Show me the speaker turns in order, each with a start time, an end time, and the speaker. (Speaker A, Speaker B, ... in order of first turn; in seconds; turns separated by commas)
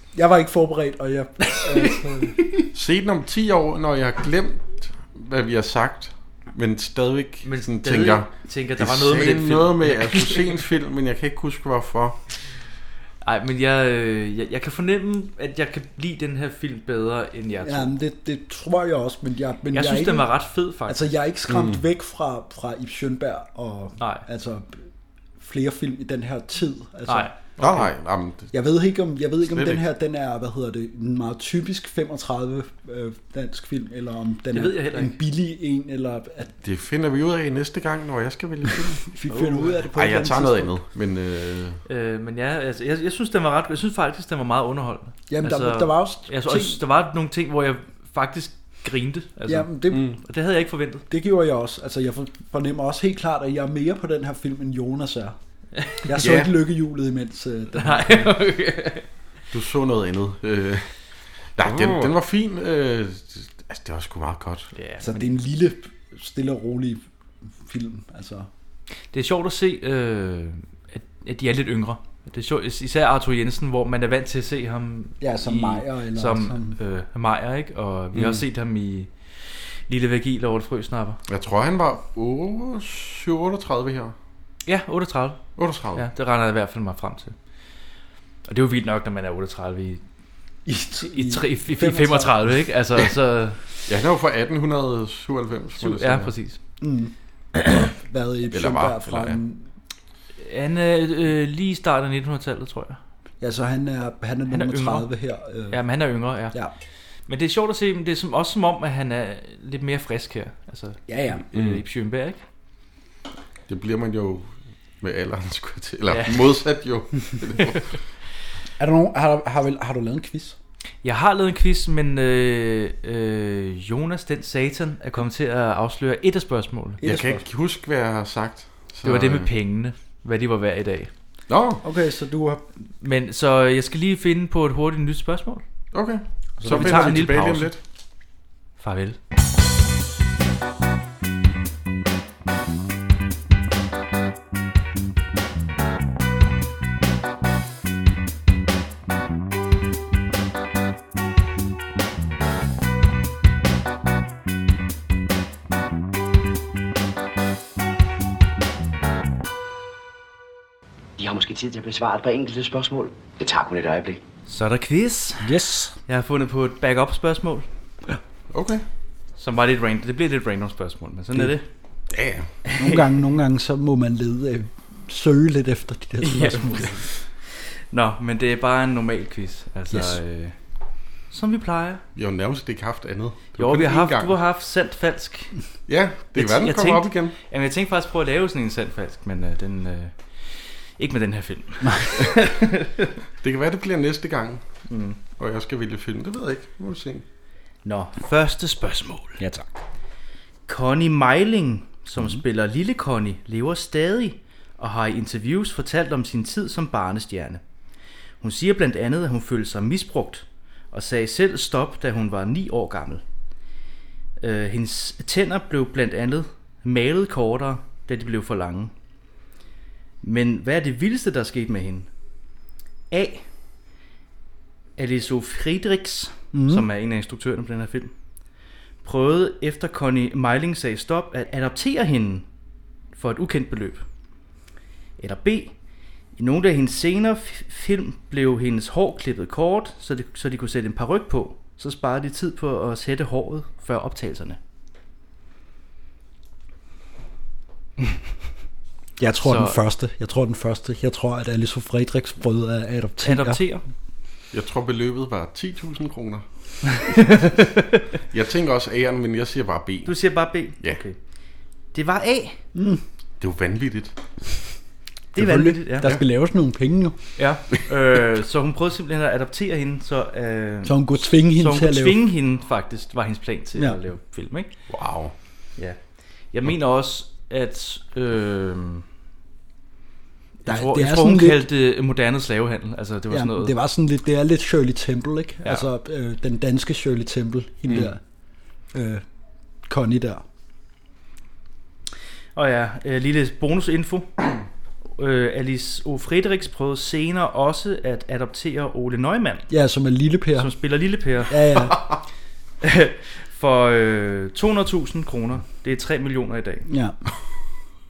Speaker A: 0.1-2.5, Speaker B: 2.7-12.2, Speaker C: 7.4-10.6, Speaker C: 13.2-17.9, Speaker A: 17.6-20.3, Speaker C: 19.7-21.1, Speaker A: 20.9-24.8, Speaker B: 21.5-21.8, Speaker C: 24.0-24.2, Speaker A: 25.4-27.3, Speaker C: 27.1-27.9, Speaker B: 27.6-28.5, Speaker A: 28.5-36.5, Speaker B: 29.5-29.8, Speaker C: 34.5-35.1, Speaker B: 36.6-39.1, Speaker A: 39.0-40.7, Speaker C: 39.3-39.7, Speaker B: 39.9-41.8, Speaker C: 41.9-51.0, Speaker A: 45.3-46.8, Speaker A: 49.5-50.1, Speaker B: 49.9-50.2, Speaker A: 51.1-55.4, Speaker C: 55.8-56.0, Speaker A: 56.0-58.3, Speaker B: 56.1-56.5, Speaker C: 57.7-59.0, Speaker B: 59.5-60.9, Speaker B: 61.6-64.7, Speaker C: 61.6-62.0, Speaker C: 64.7-65.2, Speaker A: 65.0-67.0, Speaker A: 67.6-68.5, Speaker C: 69.1-81.2, Speaker A: 75.2-76.8, Speaker B: 78.1-78.4, Speaker B: 81.3-84.1, Speaker C: 84.6-85.4, Speaker B: 85.5-86.1, Speaker C: 85.9-87.3, Speaker C: 88.5-90.0, Speaker A: 90.7-92.6, Speaker C: 91.1-93.6, Speaker B: 93.8-96.3, Speaker C: 95.8-96.6, Speaker A: 96.8-99.6, Speaker B: 98.5-99.4, Speaker C: 100.4-103.0, Speaker A: 103.4-105.8, Speaker C: 104.5-105.1, Speaker C: 105.7-106.6, Speaker C: 107.3-112.4, Speaker A: 111.1-111.4, Speaker B: 111.5-111.8, Speaker B: 113.7-118.0, Speaker C: 116.1-116.5, Speaker A: 118.8-120.6, Speaker C: 121.0-127.0, Speaker A: 127.0-127.4, Speaker B: 127.0-129.5, Speaker C: 129.0-131.1, Speaker B: 131.5-131.8, Speaker A: 131.8-132.6, Speaker C: 133.0-135.6, Speaker B: 135.9-137.8, Speaker A: 136.6-137.2, Speaker C: 136.6-137.7, Speaker C: 138.8-139.2, Speaker D: 161.2-164.2, Speaker C: 164.5-165.5, Speaker A: 165.4-165.9, Speaker C: 166.0-167.7, Speaker B: 168.5-168.8, Speaker C: 169.4-171.6, Speaker B: 172.1-172.5, Speaker C: 172.7-173.0, Speaker A: 172.8-177.0, Speaker C: 176.2-180.5, Speaker C: 181.3-182.0, Speaker B: 182.2-184.4, Speaker C: 183.6-185.6, Speaker B: 185.9-187.3, Speaker C: 186.3-193.1, Speaker B: 193.4-194.6, Speaker C: 194.9-195.2, Speaker B: 195.4-197.2, Speaker C: 197.8-199.4, Speaker A: 199.4-199.7, Speaker C: 200.7-207.6, Speaker A: 202.2-202.4, Speaker C: 208.4-213.2, Speaker C: 214.4-218.9, Speaker C: 220.2-222.1, Speaker C: 223.1-223.4, Speaker C: 225.0-228.1, Speaker A: 226.5-226.8, Speaker C: 229.0-232.4, Speaker C: 233.1-234.0, Speaker C: 235.2-235.7, Speaker C: 236.3-244.6, Speaker A: 249.2-253.6, Speaker C: 249.4-249.8, Speaker C: 253.2-253.8, Speaker B: 254.5-256.4, Speaker C: 257.0-257.8, Speaker B: 258.3-260.1, Speaker C: 260.0-261.2, Speaker C: 261.9-262.6, Speaker A: 262.7-263.0, Speaker B: 263.4-264.1, Speaker C: 265.3-266.1, Speaker A: 265.3-267.2, Speaker C: 267.4-274.7, Speaker A: 270.8-272.2, Speaker B: 274.9-275.3, Speaker C: 276.5-279.1, Speaker C: 280.6-283.7, Speaker A: 280.6-281.6, Speaker A: 283.3-288.2, Speaker A: 288.9-289.2, Speaker A: 289.9-290.4, Speaker C: 292.5-294.3, Speaker C: 295.2-299.6, Speaker A: 299.7-300.7, Speaker C: 300.6-301.6, Speaker A: 301.5-302.0, Speaker C: 302.8-306.9, Speaker A: 306.9-307.2